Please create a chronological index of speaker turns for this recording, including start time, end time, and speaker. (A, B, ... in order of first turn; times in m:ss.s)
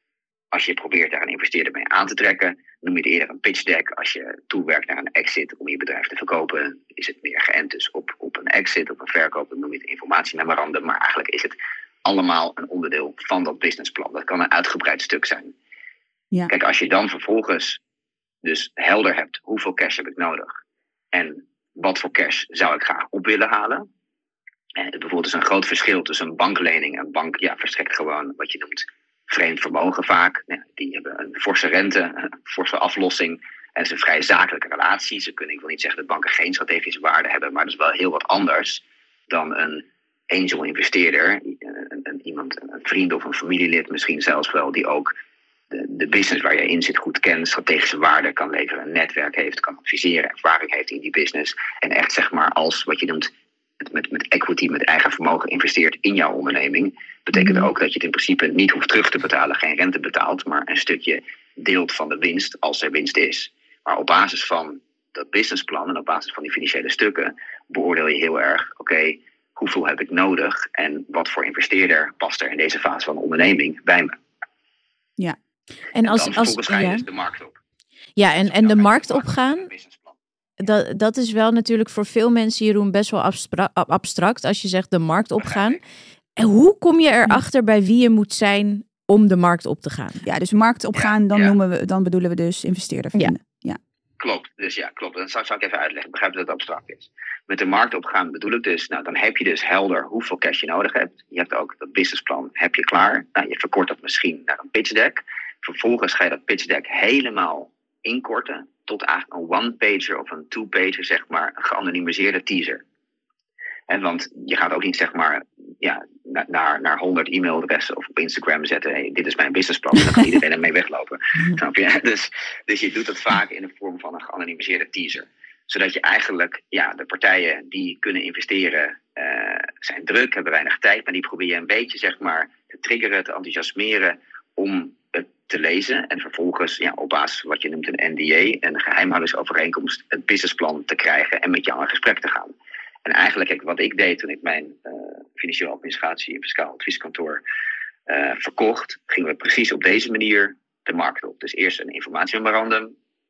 0:00.5-0:15.5 A
0:16.5-0:17.8 A
0:18.4-0:20.5 A
0:21.1-0:23.8 A
0:24.8-0:45.1 A
0:45.7-1:14.2 A
0:57.3-0:57.7 B
1:15.9-1:17.0 C
1:16.0-1:17.6 A
1:18.2-1:19.7 C
1:18.4-1:20.1 A
1:20.6-1:25.8 C
1:25.4-1:25.8 A
1:26.4-1:30.2 C
1:30.2-1:33.8 B
1:30.9-1:31.5 A
1:34.2-1:52.8 A
1:53.9-2:22.5 A
2:23.0-2:27.4 A
2:28.1-2:32.9 A